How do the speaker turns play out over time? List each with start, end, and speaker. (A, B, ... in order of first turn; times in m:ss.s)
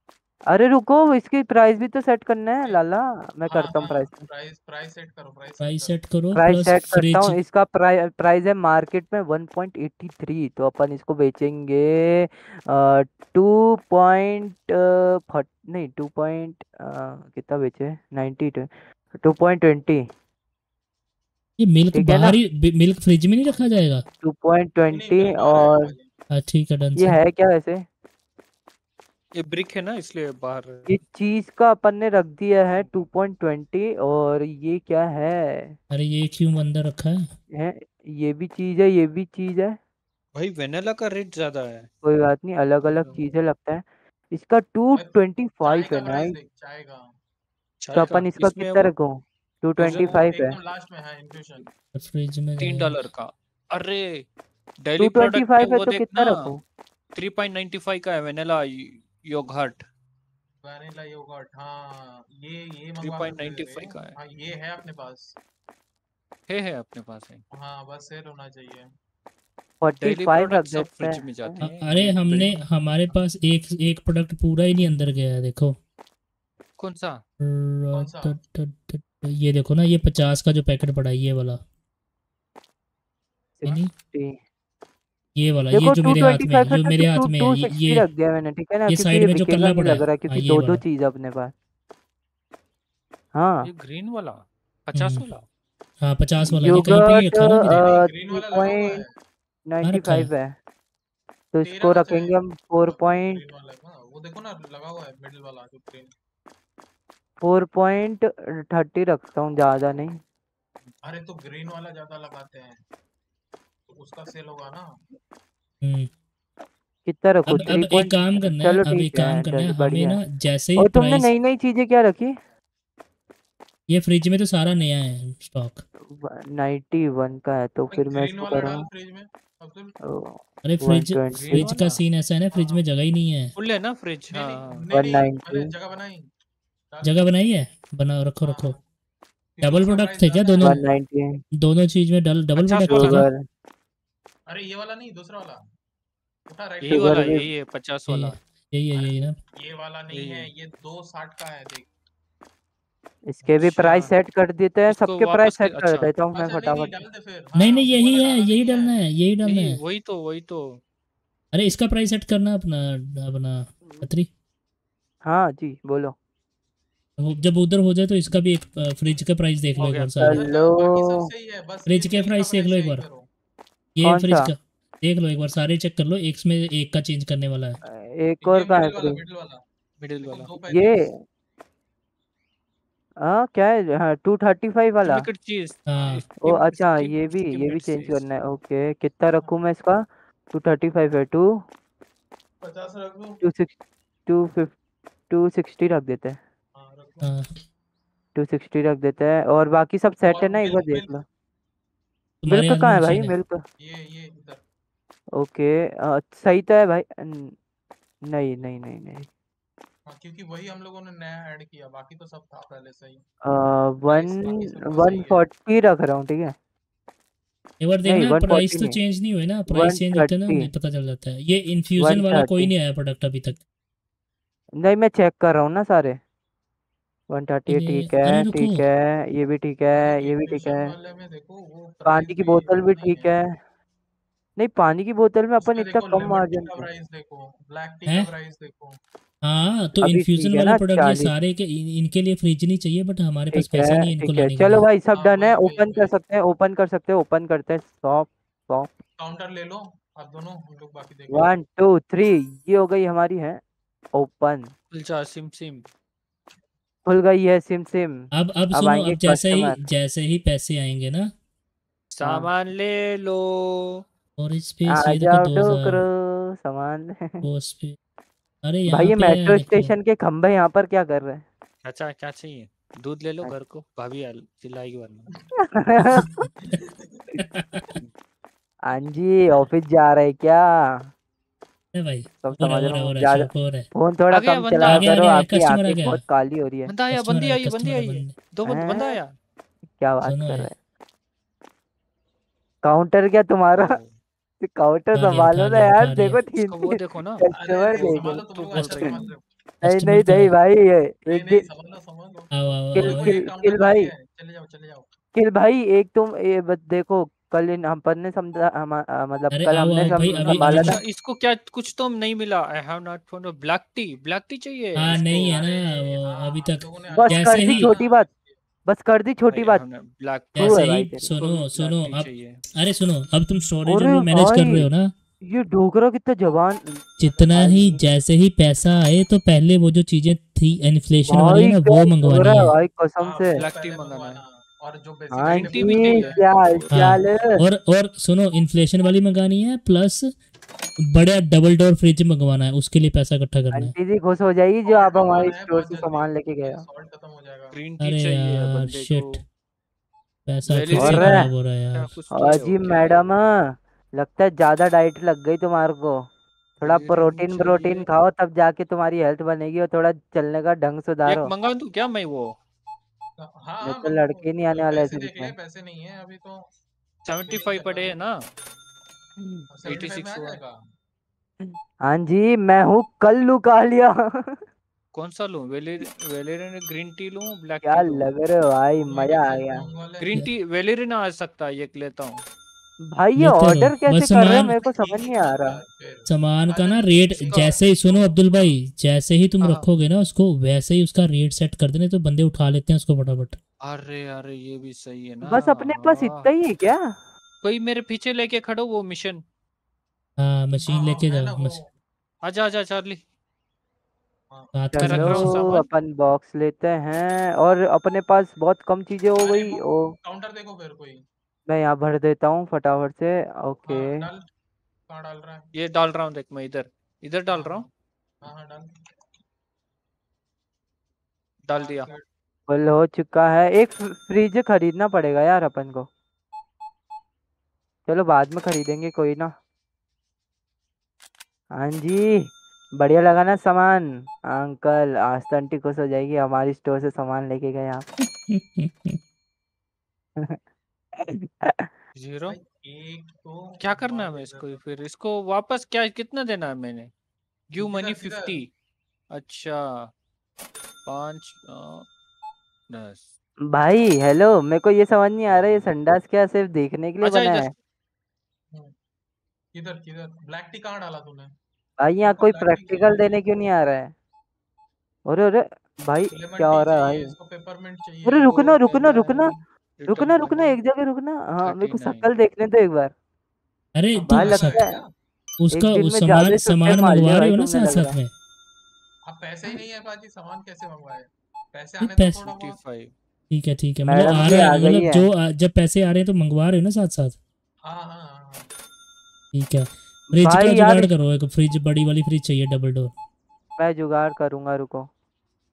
0:00.5-0:04.1 A
0:03.5-0:05.9 B
0:05.6-0:07.4 C
0:06.4-0:20.0 A
0:21.6-0:24.0 C
0:21.9-0:22.4 A
0:24.2-0:25.9 A
0:24.8-0:26.1 B
0:26.3-0:27.2 C
0:27.0-0:27.8 A
0:29.3-0:30.9 D
0:30.9-0:35.8 A
0:35.9-0:37.3 C
0:37.5-0:39.8 A
0:40.3-0:41.9 D
0:42.0-0:46.4 A
0:42.8-0:43.2 D
0:44.9-0:47.1 B
0:47.8-0:48.9 D
0:47.9-0:50.6 A
0:49.8-0:50.2 D
0:49.9-0:51.7 B
0:51.9-0:52.9 C
0:52.6-0:54.3 D
0:54.8-0:56.4 D
0:55.0-0:56.6 A
0:57.1-0:59.8 D
1:00.6-1:05.4 B
1:03.0-1:04.1 D
1:06.5-1:07.4 D
1:07.5-1:08.9 B
1:09.8-1:11.6 A
1:10.0-1:12.6 D
1:11.6-1:15.8 C
1:16.8-1:17.2 D
1:17.4-1:21.6 C
1:17.9-1:18.4 B
1:23.6-1:24.4 A
1:23.6-1:23.9 C
1:25.4-1:28.0 C
1:25.7-1:31.5 A
1:28.9-1:30.8 C
1:33.3-1:33.7 A
1:33.6-1:35.4 D
1:34.9-1:35.2 C
1:36.0-1:37.8 C
1:36.6-1:39.0 A
1:37.7-1:39.1 B
1:39.7-1:40.5 A
1:39.8-1:40.3 C
1:41.5-1:43.4 A
1:41.6-1:46.1 B
1:47.4-1:50.2 A
1:51.0-1:52.8 B
1:53.9-1:55.0 B
1:55.8-1:56.1 C
1:57.0-2:00.2 A
1:57.5-2:01.3 C
2:00.8-2:02.3 A
2:03.9-2:05.8 C
2:06.0-2:08.8 A
2:07.9-2:10.0 B
2:10.0-2:11.7 A
2:10.6-2:13.5 C
2:11.3-2:12.0 D
2:12.5-2:12.8 B
2:13.6-2:14.8 D
2:14.3-2:16.3 B
2:14.9-2:15.7 A
2:16.9-2:17.3 B
2:17.0-2:18.8 C
2:18.4-2:18.8 B
2:19.6-2:20.8 B
2:19.6-2:20.8 C
2:20.6-2:21.4 A
2:21.5-2:23.3 C
2:22.6-2:23.3 D
2:22.9-2:23.4 A
2:24.5-2:25.6 B
2:26.5-2:27.4 B
2:26.8-2:28.4 D
2:26.9-2:27.5 A
2:28.1-2:29.4 C
2:28.9-2:31.9 B
2:30.1-2:30.5 D
2:33.3-2:37.0 A
2:33.6-2:34.1 D
2:34.9-2:36.1 D
2:36.3-2:39.0 B
2:37.6-2:39.8 C
2:39.4-2:40.8 D
2:41.5-2:44.3 C
2:45.2-2:46.1 A
2:47.2-2:50.4 C
2:49.8-2:50.2 D
2:50.2-2:51.2 A
2:50.3-2:53.3 B
2:51.9-2:53.0 C
2:54.0-2:57.8 C
2:54.0-2:54.5 A
2:57.8-2:59.2 A
2:58.4-2:59.6 B
3:00.0-3:00.5 D
3:00.2-3:01.1 B
3:00.7-3:01.2 A
3:03.2-3:05.3 A
3:05.0-3:08.2 D
3:05.9-3:06.2 C
3:06.4-3:11.5 A
3:12.6-3:13.4 B
3:13.4-3:13.7 A
3:14.3-3:14.7 A
3:15.3-3:16.4 A
3:16.7-3:17.3 B
3:17.2-3:17.5 C
3:18.3-3:21.2 A
3:20.3-3:21.2 B
3:22.4-3:23.3 C
3:22.5-3:23.6 A
3:23.8-3:24.6 B
3:25.4-3:27.5 A
3:28.3-3:29.3 A
3:30.1-3:33.2 B
3:33.4-3:36.5 A
3:34.0-3:35.4 B
3:37.8-3:43.6 C
3:38.0-3:39.0 A
3:39.7-3:40.7 A
3:42.0-3:42.7 A
3:44.8-3:46.2 A
3:47.3-3:50.9 A
3:47.7-3:48.8 C
3:50.0-3:53.3 B
3:52.0-3:53.5 A
3:54.6-3:56.9 A
3:55.6-3:59.0 B
3:59.4-4:04.8 C
4:00.0-4:01.3 A
4:03.5-4:08.9 A
4:05.1-4:06.1 B
4:09.2-4:11.5 B
4:11.3-4:13.6 A
4:14.1-4:14.7 A
4:14.9-4:15.8 D
4:17.0-4:19.8 A
4:18.3-4:21.3 C
4:22.1-4:24.0 D
4:22.2-4:22.5 A
4:24.4-4:26.0 C
4:24.9-4:27.4 A
4:27.4-4:27.9 C
4:28.6-4:29.9 C
4:28.9-4:31.4 A
4:31.8-4:35.3 D
4:35.7-4:36.2 A
4:36.6-4:37.4 B
4:37.4-4:38.0 C
4:38.9-4:41.1 A
4:41.9-4:43.9 C
4:42.4-4:46.9 A
4:44.3-4:45.1 D
4:44.8-4:46.2 C
4:46.9-4:49.3 D
4:47.1-4:48.3 C
4:48.6-4:49.2 A
4:50.0-4:50.7 A
4:50.2-4:50.7 C
4:52.8-4:54.0 A
4:53.8-4:54.2 D
4:54.6-4:59.0 A
4:55.1-4:56.4 C
4:56.6-4:57.4 D
4:57.5-4:59.4 B
4:58.0-4:59.2 D
4:59.8-5:00.5 C
4:59.8-5:01.6 A
5:01.3-5:05.1 B
5:02.5-5:03.3 C
5:02.9-5:04.1 A
5:05.3-5:11.0 A
5:09.5-5:11.0 C
5:10.1-5:15.6 D
5:15.0-5:17.9 C
5:15.0-5:18.6 B
5:17.2-5:18.3 A
5:18.9-5:19.8 A
5:19.5-5:22.6 D
5:20.5-5:25.1 C
5:20.6-5:21.3 A
5:23.9-5:24.9 A
5:25.4-5:28.0 A
5:27.2-5:32.7 C
5:31.2-5:33.6 A
5:33.2-5:36.5 B
5:33.6-5:34.4 D
5:35.3-5:37.6 A
5:35.4-5:37.2 D
5:36.9-5:40.3 C
5:41.1-5:43.9 C
5:43.7-5:46.8 A
5:44.8-5:47.8 B
5:47.7-5:49.4 D
5:48.0-5:49.4 C
5:50.4-5:52.1 C
5:50.6-5:53.2 D
5:50.9-5:51.5 A
5:52.3-5:56.2 A
5:56.8-6:01.5 A
5:56.8-5:58.1 D
6:01.2-6:02.5 D
6:03.4-6:06.6 B
6:03.8-6:05.5 A
6:07.2-6:08.4 D
6:07.4-6:08.1 B
6:09.4-6:09.7 A
6:09.7-6:10.8 B
6:09.8-6:10.6 D
6:11.6-6:14.6 A
6:15.1-6:18.3 D
6:17.8-6:19.8 A
6:19.1-6:20.3 B
6:20.2-6:22.4 D
6:23.1-6:25.8 A
6:23.4-6:24.7 C
6:24.8-6:28.8 B
6:26.3-6:33.6 C
6:33.8-6:36.5 D
6:35.5-6:37.2 A
6:37.6-6:39.4 D
6:40.4-6:41.8 C
6:40.9-6:41.9 B
6:42.4-6:43.2 D
6:44.7-6:45.6 C
6:44.9-6:50.1 A
6:45.0-6:45.8 D
6:49.4-6:51.2 B
6:51.7-6:54.2 A
6:53.9-6:54.4 B
6:55.1-6:55.7 B
6:55.7-6:57.9 D
6:57.5-6:57.9 B
6:58.4-6:58.9 B
7:01.6-7:02.1 D
7:01.8-7:02.2 B
7:02.7-7:06.1 A
7:08.1-7:09.5 A
7:11.8-7:18.1 A
7:18.4-7:19.2 C
7:21.2-7:21.9 A
7:22.2-7:22.6 D
7:22.5-7:24.8 B
7:23.8-7:27.1 D
7:27.7-7:28.7 D
7:27.8-7:28.6 B
7:29.3-7:30.1 D
7:31.0-7:32.0 D
7:32.9-7:33.3 D
7:33.7-7:37.7 A
7:37.2-7:37.7 D
7:39.7-7:41.5 B
7:42.0-7:44.1 A
7:42.2-7:43.3 B
7:45.3-7:47.3 A
7:46.3-7:48.7 B
7:48.2-7:49.6 A
7:48.5-7:50.8 D
7:50.1-7:53.1 A
7:51.6-7:52.3 D
7:53.9-7:54.8 C
7:54.2-7:55.0 A
7:54.3-7:55.1 B
7:55.6-7:58.3 C
7:55.8-7:58.2 A
7:59.2-8:02.8 B
8:02.0-8:02.4 C
8:02.4-8:03.1 D
8:03.5-8:07.4 C
8:04.1-8:05.2 A
8:07.9-8:08.7 B
8:09.5-8:13.1 C
8:10.3-8:11.1 A
8:13.8-8:15.1 A